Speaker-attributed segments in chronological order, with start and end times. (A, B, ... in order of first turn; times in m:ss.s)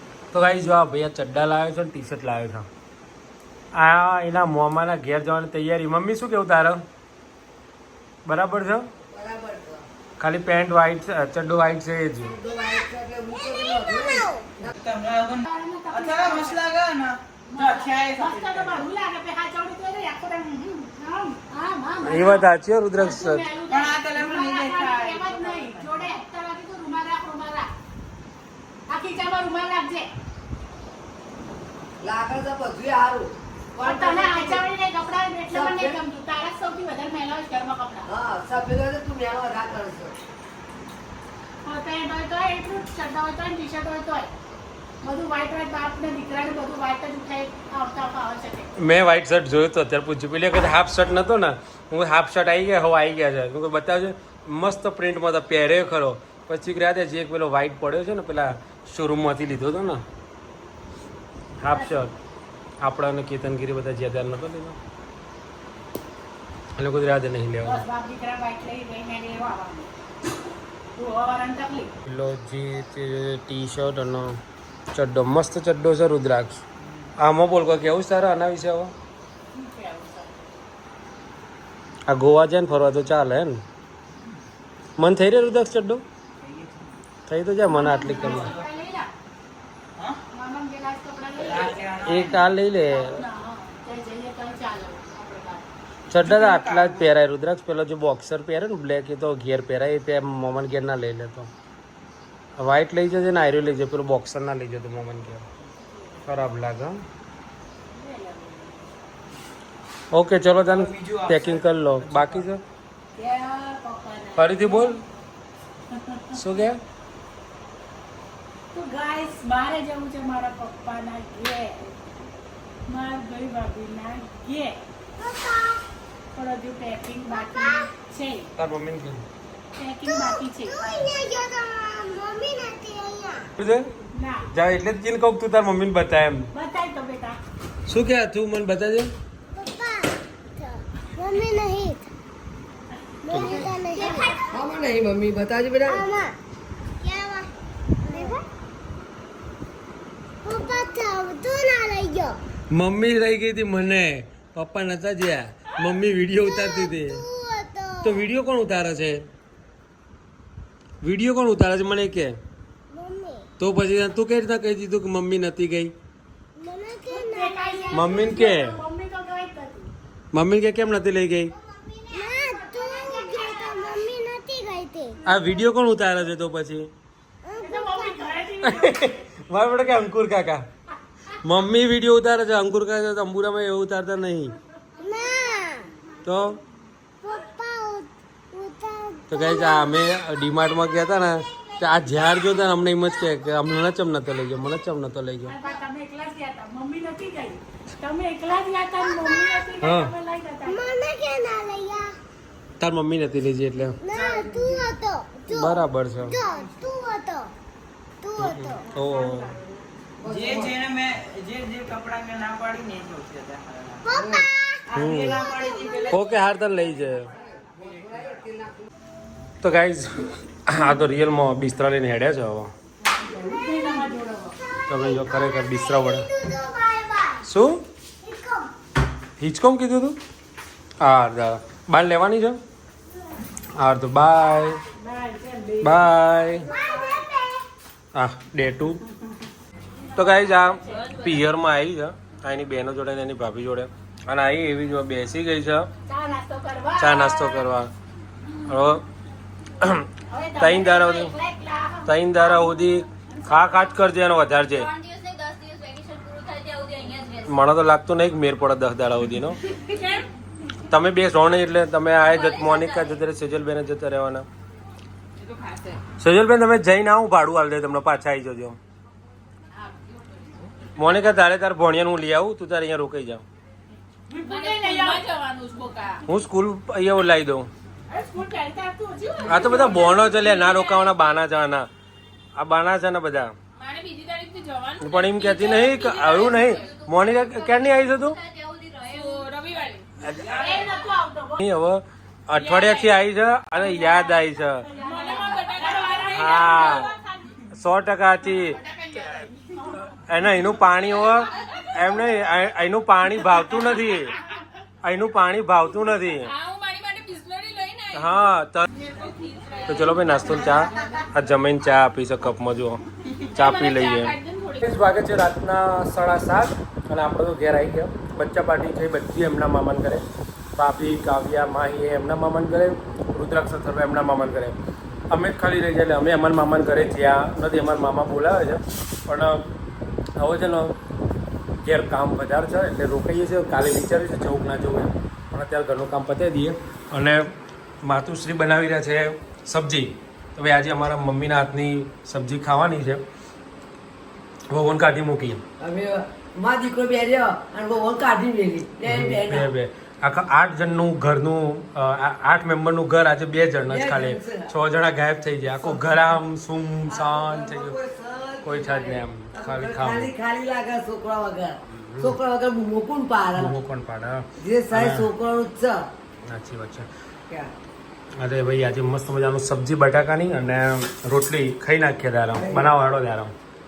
0:00.3-0:02.7 A
0:03.7-0:06.8 A
0:08.2-0:08.9 A
0:09.1-0:09.9 B
0:10.2-0:12.4 A
0:12.2-0:14.7 B
0:12.6-0:14.5 C
0:14.7-0:18.8 D
0:15.4-0:16.6 E
0:17.4-0:27.7 E
0:22.0-0:23.5 A
0:23.7-0:26.0 D
0:28.9-0:30.1 E
0:32.0-0:34.6 B
0:33.8-0:38.1 E
0:35.5-0:36.0 B
0:38.1-0:40.2 B
0:41.6-0:44.3 E
0:45.0-0:48.7 E
0:48.8-1:00.0 A
1:01.6-1:02.1 A
1:01.7-1:01.9 E
1:02.8-1:04.8 A
1:06.7-1:07.8 A
1:07.6-1:09.9 E
1:10.9-1:11.9 E
1:12.0-1:14.4 A
1:14.9-1:16.6 A
1:17.2-1:18.9 A
1:19.5-1:20.4 E
1:22.1-1:23.6 A
1:25.0-1:26.0 A
1:26.4-1:27.0 D
1:27.3-1:28.6 A
1:27.6-1:29.1 E
1:28.2-1:28.6 D
1:30.3-1:35.7 E
1:31.4-1:32.3 D
1:32.0-1:33.2 A
1:36.1-1:41.5 A
1:36.2-1:37.1 D
1:42.6-1:45.4 A
1:46.2-1:47.0 A
1:47.9-1:49.0 E
1:50.1-1:52.6 A
1:50.6-1:52.5 D
1:53.2-1:55.0 E
1:54.4-1:55.0 A
1:55.9-1:56.4 E
1:56.3-1:56.8 A
1:58.7-2:02.0 E
2:02.9-2:04.8 E
2:05.2-2:05.8 C
2:06.3-2:08.5 E
2:07.3-2:07.9 C
2:08.6-2:09.2 A
2:09.7-2:11.1 E
2:10.0-2:13.5 C
2:13.6-2:13.9 A
2:14.1-2:14.5 E
2:14.5-2:16.5 A
2:16.5-2:17.4 E
2:17.8-2:19.1 A
2:19.5-2:22.1 C
2:23.2-2:24.6 C
2:23.3-2:24.3 E
2:23.3-2:23.7 A
2:24.5-2:26.1 B
2:25.9-2:26.4 C
2:27.0-2:27.5 C
2:28.0-2:28.4 C
2:28.1-2:28.4 E
2:30.4-2:32.4 C
2:32.7-2:37.2 A
2:36.4-2:38.2 C
2:38.0-2:39.2 A
2:41.0-2:42.4 A
2:42.9-2:43.5 C
2:43.6-2:45.9 A
2:46.6-2:48.0 C
2:47.1-2:49.9 E
2:47.9-2:48.8 A
2:50.3-2:51.5 A
2:51.5-2:55.2 C
2:52.4-2:53.7 E
2:55.2-2:56.9 A
2:57.4-2:58.3 C
2:57.6-2:59.1 E
2:58.6-3:00.6 A
3:01.4-3:04.6 A
3:05.0-3:05.9 C
3:06.2-3:06.6 A
3:07.2-3:13.3 C
3:09.3-3:15.5 A
3:15.4-3:20.9 E
3:19.0-3:19.7 C
3:19.8-3:20.1 A
3:20.6-3:22.2 C
3:22.8-3:24.0 A
3:24.0-3:27.5 C
3:24.1-3:25.0 D
3:24.2-3:24.8 B
3:25.5-3:26.4 A
3:26.4-3:26.9 D
3:28.2-3:28.8 C
3:28.4-3:29.5 A
3:28.9-3:29.6 E
3:30.2-3:30.8 B
3:30.2-3:34.0 D
3:34.0-3:34.9 C
3:34.1-3:34.5 B
3:34.9-3:36.4 D
3:34.9-3:35.4 A
3:35.5-3:36.0 C
3:36.0-3:37.3 A
3:37.3-3:38.9 B
3:37.7-3:38.4 D
3:39.6-3:42.7 A
3:43.2-3:44.6 E
3:44.9-3:46.3 A
3:44.9-3:47.5 C
3:47.4-3:47.8 A
3:48.2-3:48.7 C
3:49.4-3:50.2 A
3:51.0-3:52.6 A
3:53.7-3:54.8 A
3:54.9-3:56.1 E
3:55.8-3:56.7 A
3:56.6-3:57.0 E
3:56.7-3:57.7 C
3:58.1-3:59.0 A
4:00.1-4:05.9 A
4:00.2-4:01.1 E
4:06.0-4:07.7 E
4:07.0-4:07.9 A
4:08.6-4:09.0 A
4:09.8-4:11.3 A
4:10.3-4:13.7 E
4:12.0-4:14.9 A
4:14.8-4:17.6 C
4:17.4-4:19.6 A
4:19.9-4:20.2 F
4:20.9-4:24.5 A
4:22.2-4:23.2 C
4:25.4-4:26.0 D
4:26.2-4:28.8 A
4:31.0-4:33.4 A
4:34.3-4:35.2 E
4:34.4-4:36.2 F
4:36.2-4:37.7 A
4:38.1-4:41.0 E
4:39.4-4:41.9 A
4:40.0-4:40.8 F
4:42.5-4:43.5 A
4:43.8-4:47.0 F
4:45.0-4:48.4 A
4:46.4-4:49.5 C
4:48.7-4:50.0 F
4:50.2-4:50.7 A
4:50.4-4:51.6 E
4:50.4-4:50.8 D
4:51.6-4:54.9 A
4:52.5-4:53.1 F
4:54.8-4:57.2 E
4:55.0-4:57.1 F
4:56.3-4:57.1 A
4:57.7-4:58.8 A
4:58.8-4:59.4 F
5:00.1-5:04.4 A
5:05.0-5:06.5 A
5:06.4-5:08.4 F
5:08.1-5:08.9 A
5:08.9-5:11.1 F
5:09.8-5:13.0 A
5:13.4-5:14.9 F
5:13.5-5:20.2 A
5:20.8-5:24.8 A
5:25.3-5:29.7 A
5:30.4-5:31.0 A
5:31.8-5:43.2 A
5:44.7-5:45.6 A
5:45.8-5:49.7 B
5:49.0-5:58.0 A
5:53.9-5:54.7 B
5:55.7-5:56.1 B
5:57.1-6:03.7 B
5:58.6-6:00.3 A
6:01.9-6:02.4 A
6:03.5-6:05.3 A
6:04.6-6:06.0 B
6:06.5-6:07.1 A
6:08.4-6:13.5 A
6:12.5-6:12.9 B